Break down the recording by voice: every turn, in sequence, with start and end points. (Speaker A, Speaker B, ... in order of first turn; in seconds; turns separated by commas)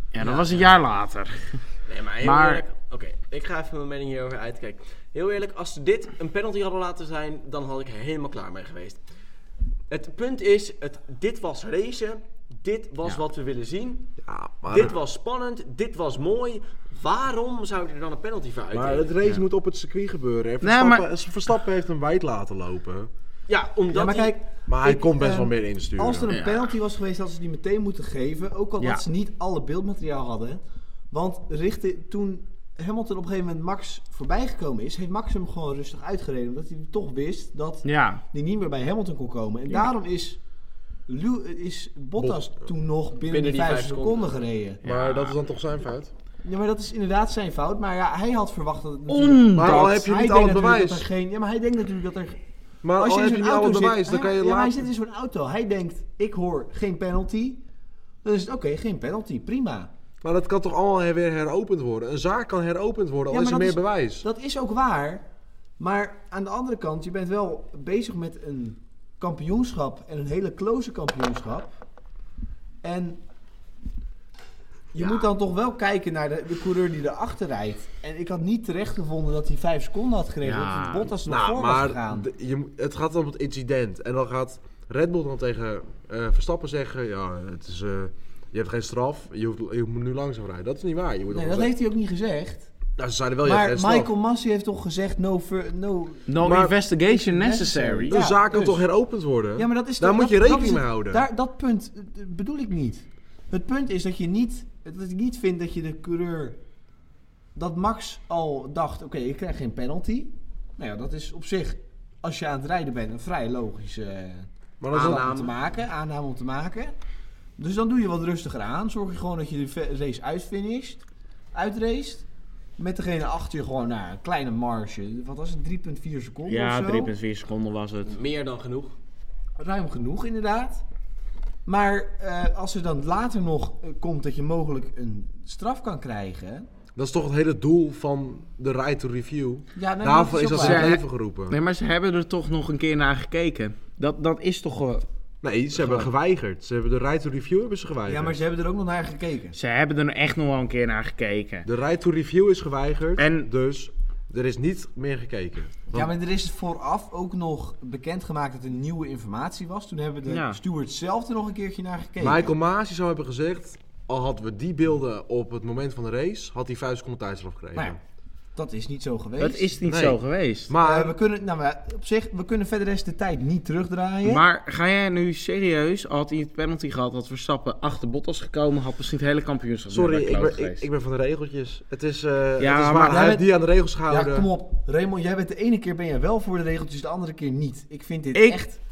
Speaker A: 0.1-1.6, Speaker B: 0.2-0.7, Speaker B: 1.9-9.0, Speaker A: 2.2-2.6, Speaker B: 9.9-14.1, Speaker C: 14.2-14.9, Speaker B: 14.7-19.1, Speaker C: 18.7-23.1, Speaker A: 20.6-21.1, Speaker B: 23.5-24.4, Speaker D: 23.9-40.4, Speaker C: 24.7-26.3, Speaker A: 26.3-26.7, Speaker A: 37.8-38.2, Speaker D: 41.1-44.8, Speaker C: 42.2-42.5, Speaker B: 43.3-44.3, Speaker A: 44.8-45.4, Speaker C: 44.8-46.1, Speaker D: 46.4-52.4, Speaker A: 49.1-49.9, Speaker C: 49.5-51.1, Speaker C: 52.8-54.9, Speaker D: 52.9-57.6, Speaker D: 58.2-59.9, Speaker C: 60.2-64.2, Speaker D: 63.3-65.3, Speaker D: 65.8-71.8, Speaker D: 72.8-73.2, Speaker D: 74.9-82.3, Speaker A: 80.4-81.1, Speaker C: 81.3-91.7, Speaker D: 91.3-92.7, Speaker C: 93.0-94.1, Speaker D: 93.4-96.3, Speaker A: 96.3-98.2, Speaker C: 96.4-96.8, Speaker D: 97.0-98.8, Speaker C: 98.1-101.2, Speaker D: 99.6-106.6, Speaker D: 107.5-117.0, Speaker C: 114.8-115.3, Speaker B: 114.9-115.5, Speaker D: 117.6-121.0, Speaker D: 121.5-122.2, Speaker D: 122.8-127.1, Speaker A: 126.5-128.1, Speaker B: 128.0-129.0, Speaker D: 129.6-130.8, Speaker D: 131.7-136.7, Speaker C: 137.0-141.6, Speaker D: 139.8-141.0, Speaker A: 140.6-145.1, Speaker C: 145.4-148.4, Speaker D: 145.8-146.1, Speaker D: 148.1-149.6, Speaker A: 149.5-151.7, Speaker C: 151.7-156.1, Speaker A: 153.2-153.5, Speaker D: 155.9-162.6, Speaker A: 160.3-160.6, Speaker C: 162.2-168.0, Speaker D: 168.6-169.7, Speaker A: 169.4-170.7, Speaker C: 169.9-171.2, Speaker D: 170.8-174.4, Speaker A: 174.2-180.8, Speaker C: 179.9-184.5, Speaker A: 182.6-183.3, Speaker D: 183.1-183.5, Speaker D: 184.1-188.8, Speaker A: 188.3-188.7